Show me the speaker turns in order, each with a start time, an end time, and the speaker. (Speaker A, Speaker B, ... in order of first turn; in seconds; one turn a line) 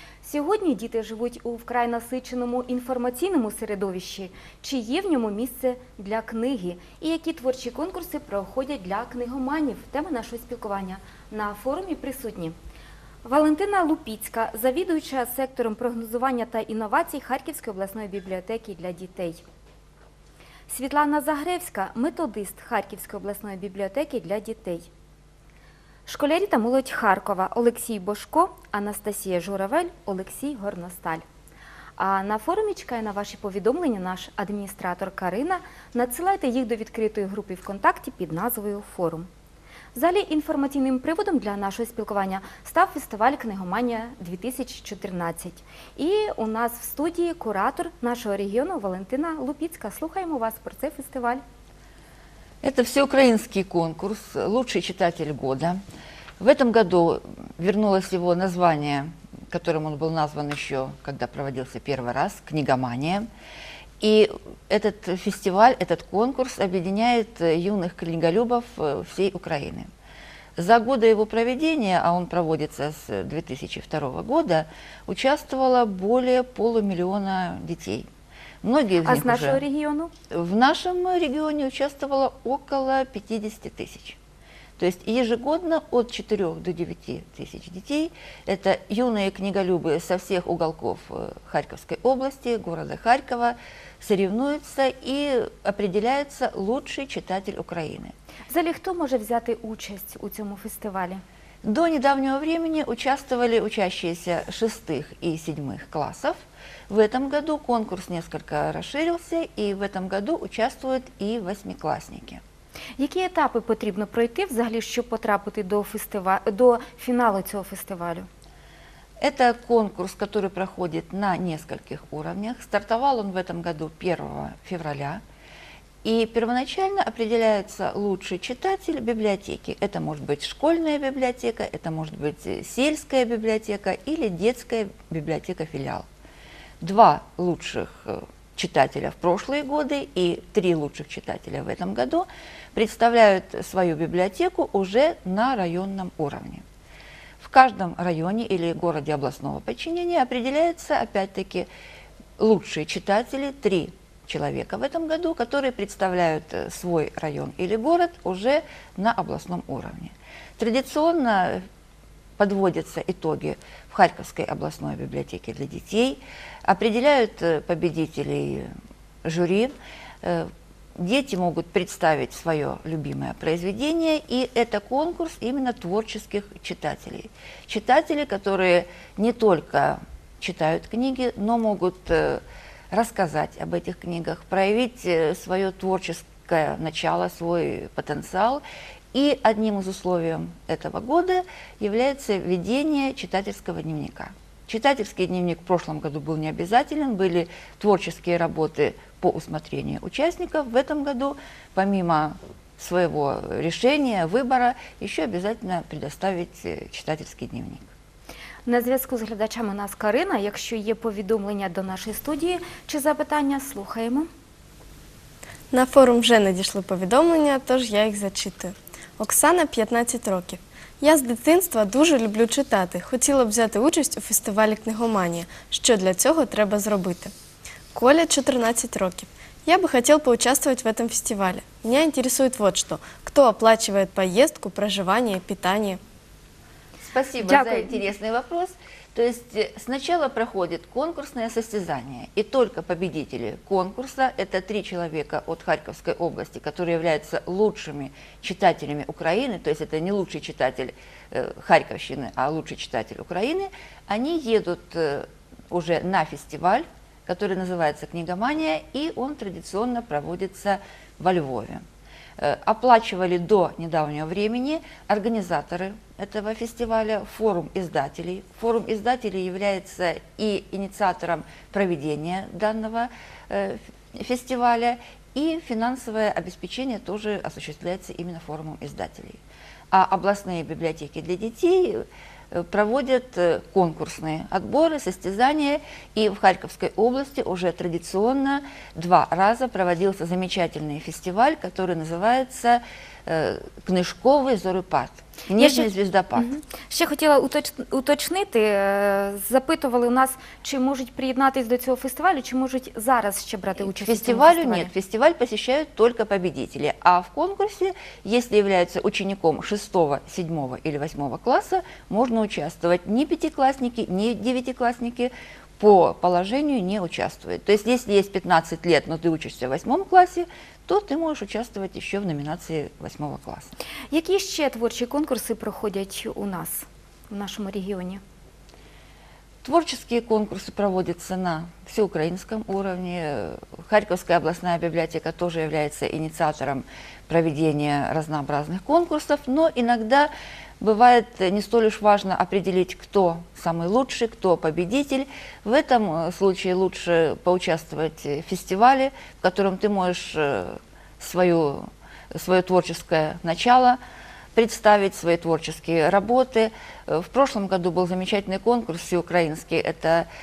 Speaker A: 0.2-12.6
Speaker A: 13.2-19.4
Speaker A: 20.7-24.9
Speaker A: 26.1-31.2
Speaker A: 32.0-39.3
Speaker A: 39.9-51.4
Speaker B: 52.6-55.8
Speaker B: 56.4-63.3
Speaker B: 64.0-69.9
Speaker B: 70.6-78.1
Speaker B: 78.6-79.6
Speaker A: 79.0-80.1
Speaker B: 80.3-84.2
Speaker B: 84.8-98.1
Speaker A: 98.5-101.2
Speaker B: 101.6-106.4
Speaker B: 106.9-112.4
Speaker A: 113.0-118.3
Speaker B: 119.2-125.2
Speaker B: 126.0-136.1
Speaker B: 136.8-146.6
Speaker B: 147.4-151.7
Speaker B: 152.4-161.6
Speaker B: 162.4-168.7
Speaker B: 169.2-207.9
Speaker A: 208.6-214.3
Speaker C: 215.7-227.3
Speaker C: 227.9-236.0
Speaker B: 237.1-261.8
Speaker A: 237.4-237.9
Speaker B: 262.4-279.4
Speaker B: 279.9-296.5
Speaker A: 295.6-304.9
Speaker B: 303.8-323.7
Speaker A: 324.1-328.2
Speaker B: 329.6-354.0
Speaker B: 354.5-360.3